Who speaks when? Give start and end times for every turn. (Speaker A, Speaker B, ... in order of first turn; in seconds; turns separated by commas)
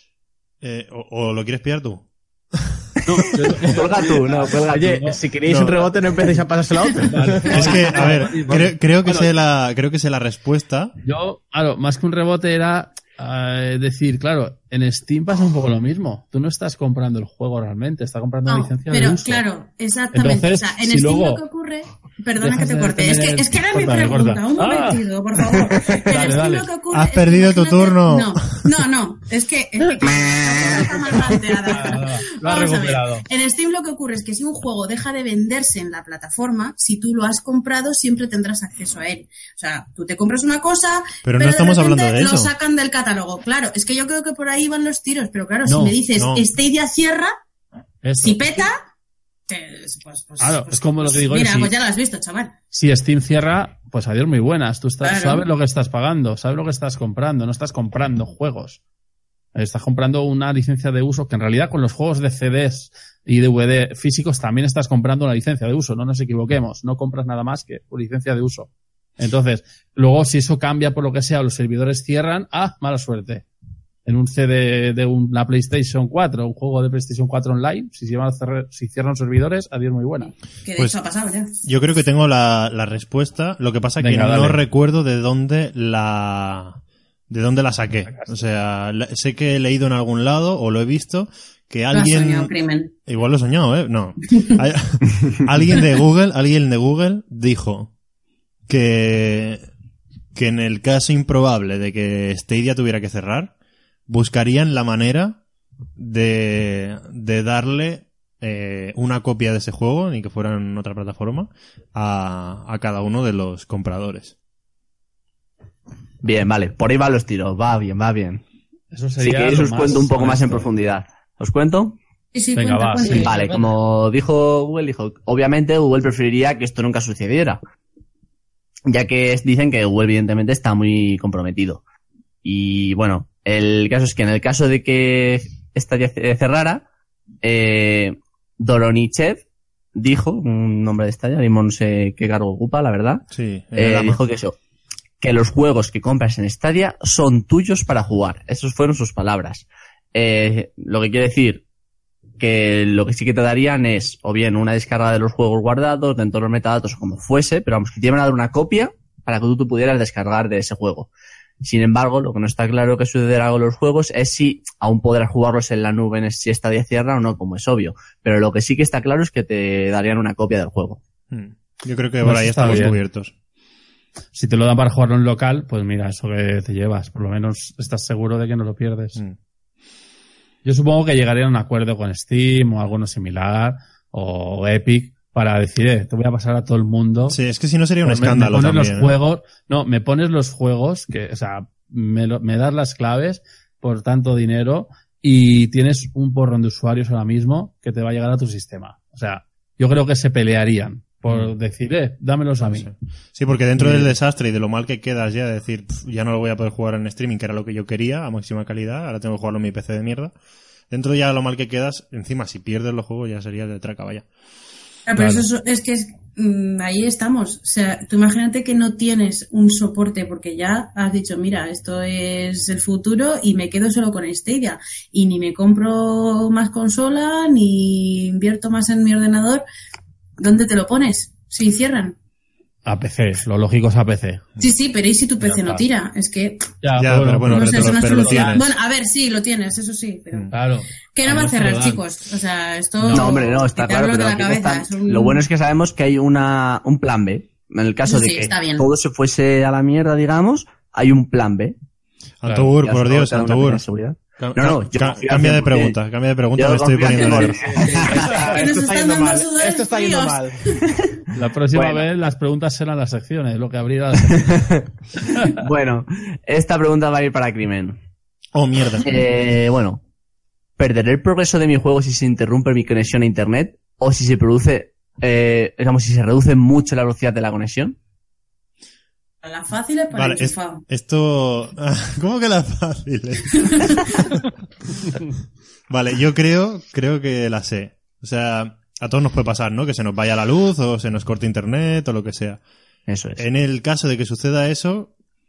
Speaker A: 0.6-2.8, Speaker B: 3.0-5.2, Speaker C: 3.6-5.1, Speaker D: 4.5-8.1, Speaker A: 5.5-5.8, Speaker B: 7.1-9.3, Speaker A: 7.5-10.9, Speaker B: 11.0-19.4, Speaker E: 18.4-47.3, Speaker B: 20.1-21.4, Speaker B: 22.4-25.0, Speaker B: 25.9-26.6, Speaker A: 26.9-28.7, Speaker B: 30.8-33.2, Speaker A: 41.2-42.5, Speaker B: 45.6-46.0, Speaker A: 46.1-46.5, Speaker B: 48.0-48.7, Speaker E: 48.2-48.8, Speaker E: 49.5-52.5, Speaker B: 50.4-51.7, Speaker B: 52.7-58.8, Speaker E: 55.0-55.4, Speaker B: 59.5-73.5, Speaker B: 74.0-80.3, Speaker E: 80.2-81.5, Speaker A: 81.6-92.5, Speaker B: 84.0-84.6, Speaker B: 88.1-88.4, Speaker E: 91.9-92.9, Speaker A: 93.0-97.9, Speaker A: 98.7-99.6, Speaker A: 100.3-103.5, Speaker A: 104.1-105.4, Speaker A: 106.0-114.3, Speaker C: 116.2-118.4, Speaker B: 118.9-120.7, Speaker C: 119.2-122.0, Speaker E: 122.3-123.6, Speaker B: 122.5-123.3, Speaker C: 123.1-127.6, Speaker C: 128.9-131.8, Speaker C: 132.4-136.8, Speaker C: 137.4-139.4, Speaker C: 139.9-143.2, Speaker A: 143.3-144.2, Speaker C: 143.8-144.6, Speaker C: 145.2-151.6, Speaker C: 152.4-161.1, Speaker C: 161.6-171.0, Speaker A: 171.3-173.3, Speaker B: 172.2-173.0, Speaker B: 174.3-179.2, Speaker B: 180.6-187.4, Speaker A: 187.3-189.1, Speaker B: 188.0-202.9, Speaker A: 202.6-210.3, Speaker B: 203.8-204.1, Speaker A: 210.9-214.2, Speaker E: 215.1-229.6, Speaker B: 215.1-215.4, Speaker E: 230.4-232.2, Speaker B: 232.8-234.5, Speaker E: 234.6-236.7, Speaker B: 235.4-235.8, Speaker B: 236.8-238.6, Speaker A: 237.0-238.7, Speaker E: 237.5-240.6, Speaker B: 240.5-242.0, Speaker E: 241.1-245.4, Speaker B: 243.0-243.3, Speaker C: 243.1-251.8, Speaker E: 248.1-248.9, Speaker A: 252.4-253.8, Speaker B: 252.4-252.7, Speaker C: 252.8-256.0, Speaker A: 254.4-257.6, Speaker C: 256.6-258.3, Speaker D: 257.7-260.7, Speaker E: 258.3-260.8, Speaker B: 261.3-264.5, Speaker C: 261.7-262.0, Speaker C: 264.3-268.0, Speaker B: 265.2-265.5, Speaker A: 268.5-269.1, Speaker C: 269.0-270.0, Speaker C: 270.8-277.9, Speaker E: 279.4-280.8, Speaker A: 280.1-284.4, Speaker E: 283.7-284.0, Speaker A: 285.9-292.6, Speaker C: 293.1-293.4, Speaker A: 293.4-295.1